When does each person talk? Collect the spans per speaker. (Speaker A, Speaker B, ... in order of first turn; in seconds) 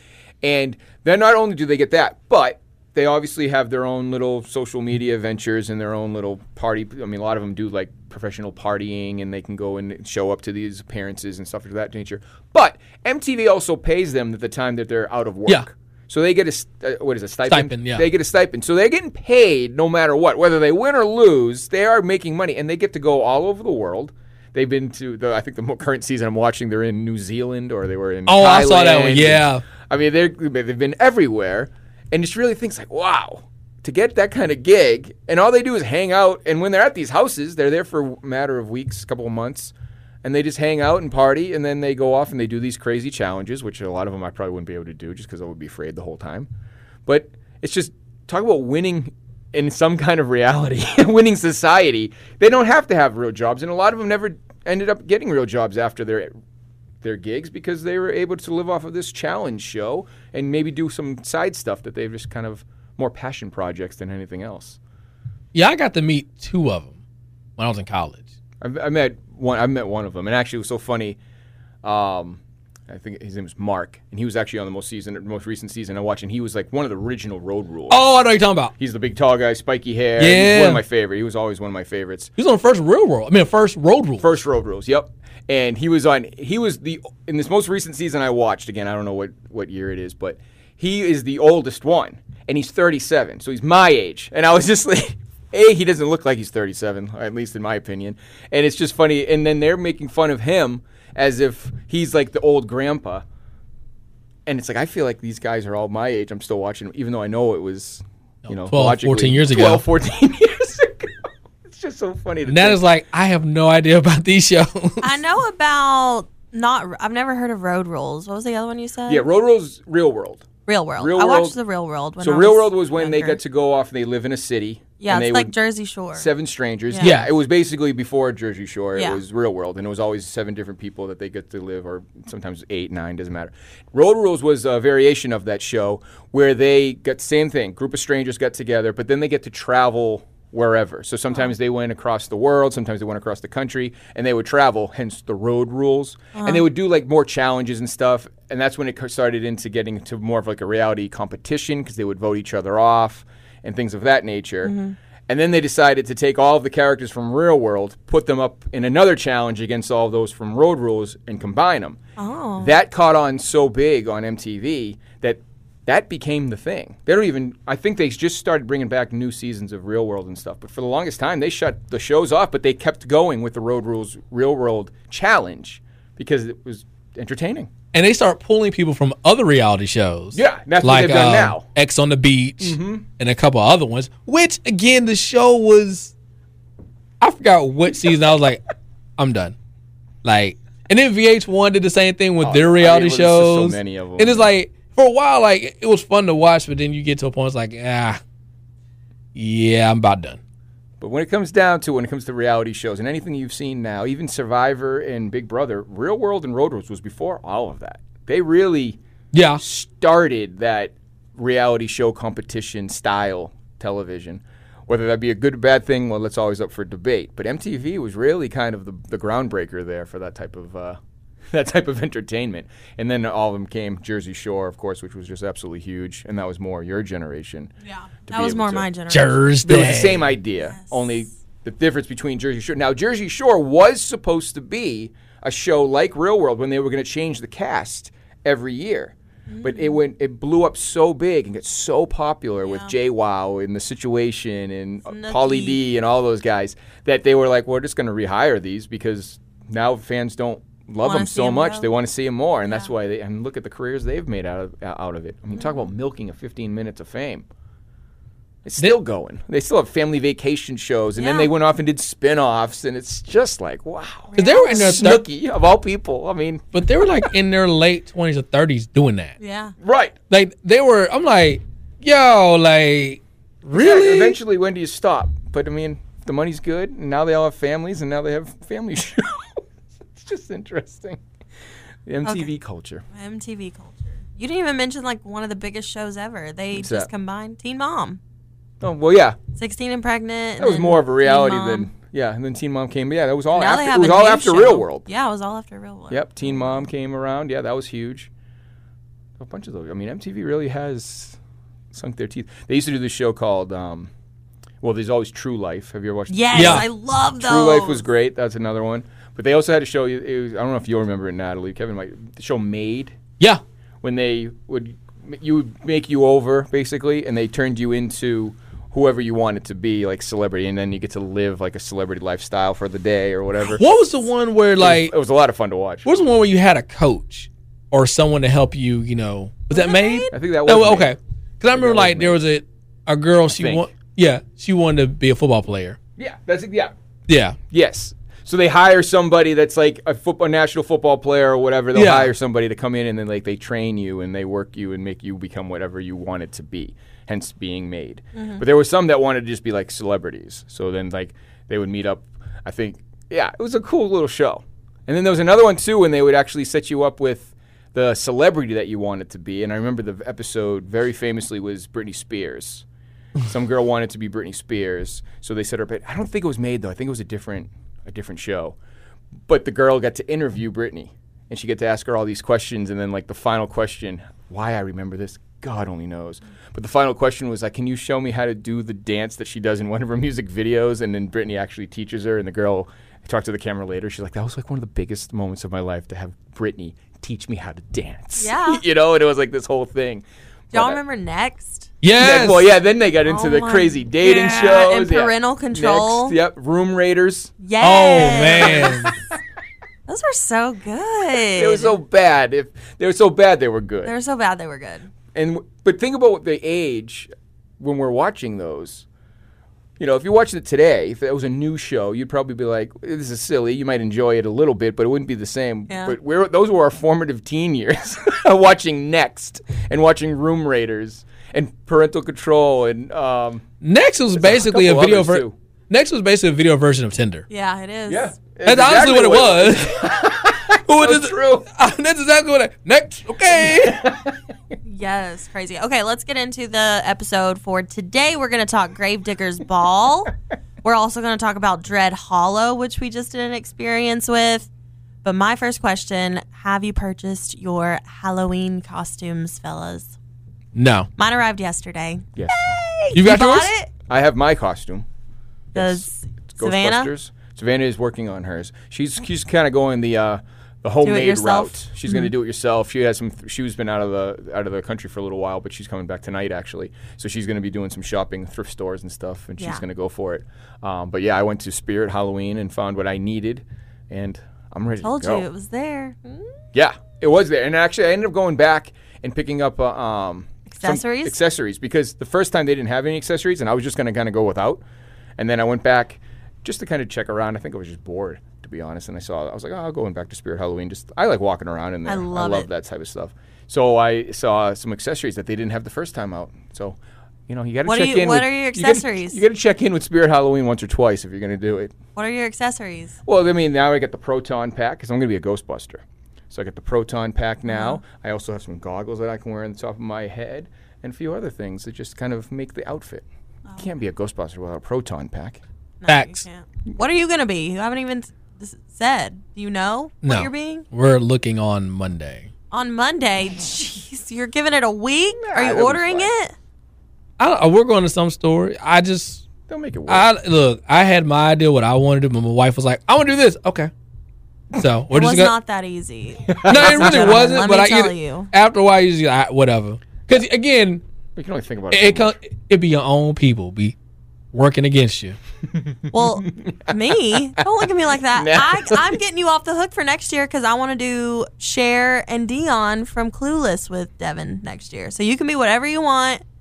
Speaker A: 0.4-46.5, 47.1-56.3, 57.0-64.8, 68.6-71.2, 71.8-78.0, 78.8-82.3, 84.2-103.2, 104.5-112.8, 119.1-121.6, 122.2-125.5, 126.2-154.7, 155.3-162.0, 162.6-177.7, 180.3-181.7, 182.6-183.1, 192.4-194.5, 201.0-209.0, 209.6-221.0, 221.5-227.7, 228.3-228.9, 229.6-257.5, 258.6-266.7, 269.8-270.1, 273.7-281.2, 282.1-283.0, 286.7-287.1, 288.8-289.4, 290.6-295.1, 296.1-298.3, 299.4-301.4, 301.9-304.1, 304.8-306.9, 307.4-313.2, 314.0-323.9, 324.8-326.1, 330.3-331.1, 331.7-332.4, 333.5-333.9, 336.2-336.9, 337.7-362.9, 363.4-368.8, 369.5-391.0, 392.2-397.5, 398.5-398.9, 401.5-404.1, 405.3-409.1, 410.0-423.7, 424.4-425.6, 428.1-431.7, 433.6-434.4, 452.4-452.7, 454.1-455.1, 455.7-475.5, 476.7-484.8, 485.4-501.9, 503.2-513.2, 513.8-515.6, 525.4-526.3, 529.7-530.3, 536.5-537.5, 541.4-542.3, 545.7-547.7, 548.3-549.2
Speaker B: 17.5-18.1, 28.3-29.6, 65.5-67.0, 67.6-68.2, 77.9-78.7, 80.2-80.8, 82.4-84.3, 108.5-109.8, 112.5-115.2, 127.0-127.3, 177.9-186.1, 187.2-188.6, 189.2-189.6, 190.2-198.2, 199.3-200.4, 209.3-209.6, 229.1-230.3, 264.4-265.2, 266.7-269.4, 270.3-274.4, 306.5-306.9, 323.7-325.1, 326.1-336.0, 337.3-337.6, 341.9-342.3, 392.0-392.7, 397.8-399.1, 423.8-427.5, 428.6-430.3, 430.9-434.1, 450.8-451.1, 453.1-453.7, 516.1-516.5, 520.2-522.5, 527.4-529.5, 530.1-533.9, 534.7-535.5, 536.7-541.0, 541.9-544.0, 544.5-545.4
Speaker C: 115.0-119.2, 120.7-123.4, 125.0-126.3, 128.9-129.2, 146.3-146.7, 154.6-155.0, 162.2-162.7, 227.8-229.5, 230.6-231.2, 239.5-240.0, 242.6-242.9, 245.1-245.8, 251.0-251.9, 261.2-261.5, 264.3-265.1, 269.4-269.8, 282.2-282.5, 283.1-288.2, 289.6-291.9, 293.5-296.8, 306.3-308.0, 329.7-330.3, 348.4-348.6, 388.4-388.8, 390.7-391.9, 393.3-396.4, 397.6-399.2, 400.1-402.0, 404.0-405.1, 415.9-416.2, 427.5-428.4, 434.9-444.7, 445.2-450.1, 451.2-453.9, 455.8-457.1, 461.0-462.2, 475.0-476.5, 480.7-481.4, 492.1-492.7, 497.9-499.4, 502.2-503.2, 507.7-508.0, 516.0-520.9, 522.7-526.5, 535.1-538.5, 546.1-556.4